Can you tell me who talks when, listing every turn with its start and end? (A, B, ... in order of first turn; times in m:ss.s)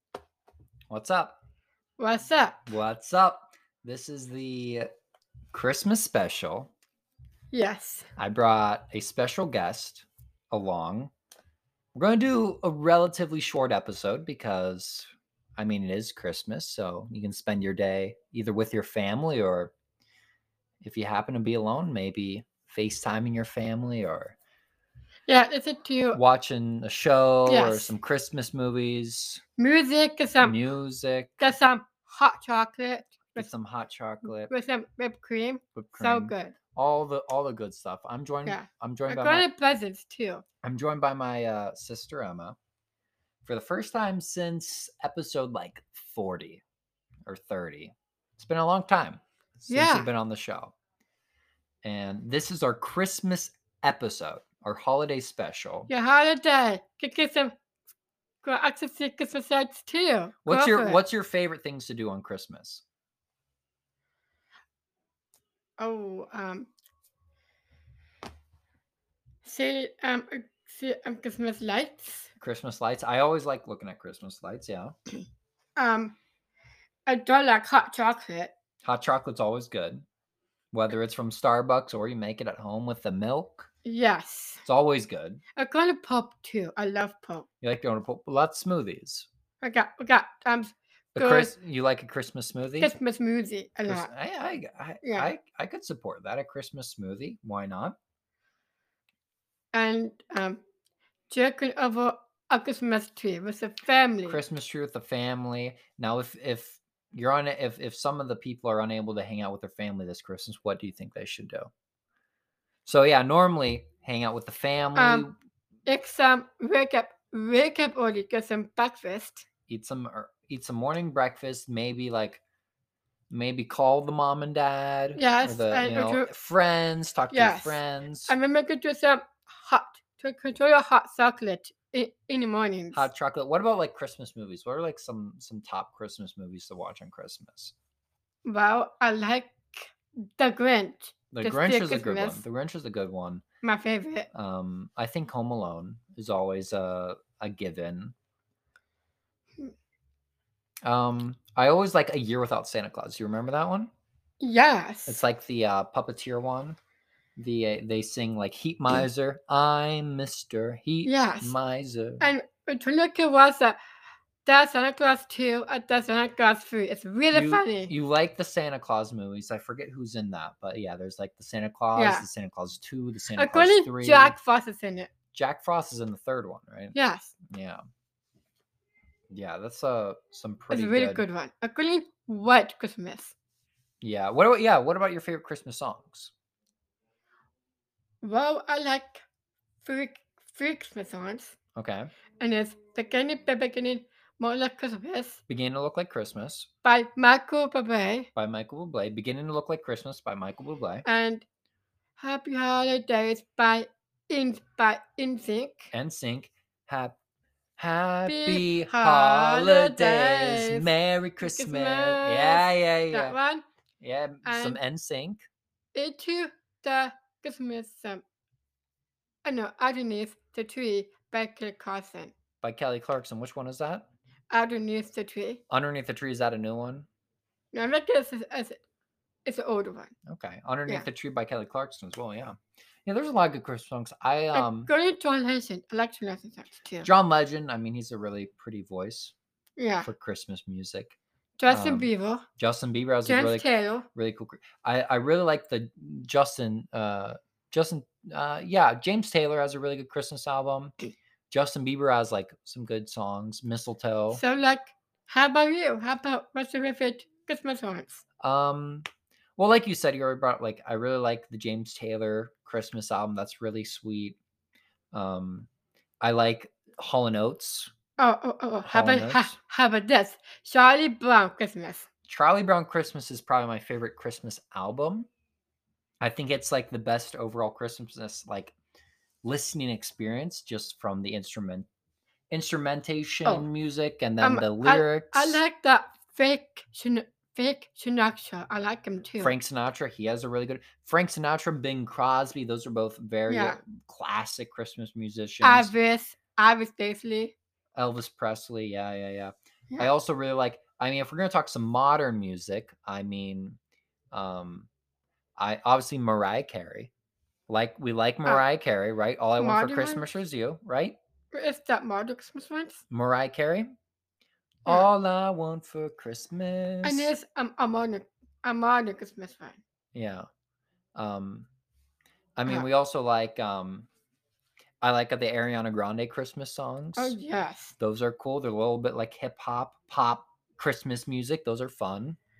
0:00.9-0:01.4 A
0:02.0-0:02.6 B
0:02.7-0:04.9 A
0:05.5-0:06.7 A
0:07.5-0:08.1 B
0:08.2-0:11.1 A
0:12.0-0:19.7 A
0:20.8-0:24.4 A
0:25.3-0:26.2 B
0:26.1-0:29.4 A
0:27.4-0:27.9 B
0:29.6-0:30.6 B
0:30.4-0:31.5 A
0:31.4-0:33.5 B
0:33.3-0:34.5 A
0:34.5-0:36.6 B
0:35.8-0:39.4 A
0:38.4-0:40.4 B
0:40.6-0:42.6 A
0:43.4-0:46.6 A
0:47.2-0:50.8 A
0:49.7-0:50.1 B
0:51.8-0:55.9 A
0:55.9-0:57.5 B
0:58.4-1:01.0 B
1:00.4-1:02.8 A
1:05.8-1:06.7 B
1:09.4-1:12.3 B
1:12.4-1:14.9 A
1:15.8-1:16.1 B
1:17.1-1:18.5 B
1:18.8-1:20.0 A
1:20.7-1:23.7 A
1:23.8-1:24.6 B
1:24.6-1:25.4 A
1:25.6-1:27.4 B
1:27.6-1:29.3 A
1:29.6-1:31.5 B
1:31.1-1:32.9 A
1:32.8-1:34.1 B
1:33.9-1:37.9 A
1:35.0-1:35.3 B
1:39.7-1:40.6 B
1:41.3-1:44.4 B
1:44.2-1:51.7 A
1:52.8-1:55.3 A
1:55.0-1:55.3 B
1:55.9-1:59.4 B
1:59.7-2:02.4 A
2:03.3-2:08.3 A
2:05.2-2:06.3 B
2:07.3-2:13.0 B
2:12.9-2:17.7 A
2:18.4-2:22.4 B
2:21.3-2:23.4 A
2:23.6-2:24.3 B
2:24.3-2:28.2 A
2:30.8-2:33.9 A
2:34.4-2:35.2 B
2:35.1-2:36.8 A
2:37.4-2:42.2 A
2:41.0-2:41.5 B
2:42.2-2:43.8 B
2:44.4-2:47.9 B
2:47.3-2:54.3 A
2:52.0-2:52.2 B
2:53.4-2:55.1 B
2:55.3-2:56.9 A
2:56.9-2:57.3 B
2:57.5-2:57.8 A
2:59.3-3:01.2 A
3:00.7-3:03.3 B
3:04.0-3:06.3 A
3:08.2-3:09.2 B
3:09.8-3:11.6 B
3:11.8-3:12.1 A
3:12.4-3:15.4 B
3:15.5-3:16.7 A
3:16.8-3:18.3 B
3:18.4-3:21.0 A
3:21.0-3:21.4 B
3:22.2-3:25.9 B
3:25.9-3:27.2 A
3:27.8-3:33.4 A
3:28.2-3:30.9 B
3:31.4-3:33.6 B
3:34.0-3:35.4 A
3:34.4-3:34.8 B
3:35.9-3:38.2 B
3:39.4-3:42.3 B
3:42.6-3:44.1 A
3:44.5-3:45.6 B
3:45.7-3:47.1 A
3:47.7-3:48.8 B
3:49.5-3:50.1 B
3:50.3-3:54.9 A
3:54.5-3:57.1 B
3:57.0-3:59.3 A
3:59.8-4:00.1 B
4:00.0-4:01.2 A
4:01.6-4:02.4 B
4:01.7-4:10.9 A
4:03.3-4:04.1 B
4:11.5-4:14.4 A
4:14.3-4:18.2 B
4:18.4-4:19.0 A
4:19.6-4:24.4 A
4:25.1-4:25.7 A
4:26.2-4:27.9 A
4:28.2-4:32.1 B
4:28.8-4:29.5 A
4:32.3-4:35.3 A
4:36.2-4:38.8 A
4:39.4-4:41.9 A
4:42.5-4:45.6 A
4:44.4-4:49.6 B
4:49.4-4:55.9 A
4:53.5-4:53.8 B
4:55.6-4:57.5 B
4:58.0-5:03.8 A
5:04.3-5:04.9 A
5:05.6-5:07.1 A
5:07.7-5:11.2 A
5:09.6-5:10.3 B
5:11.5-5:13.0 B
5:13.1-5:13.9 A
5:14.8-5:17.3 A
5:17.0-5:19.8 B
5:20.1-5:20.5 A
5:21.2-5:21.7 A
5:22.6-5:24.1 A
5:25.0-5:27.4 A
5:27.2-5:28.0 B
5:28.0-5:32.4 A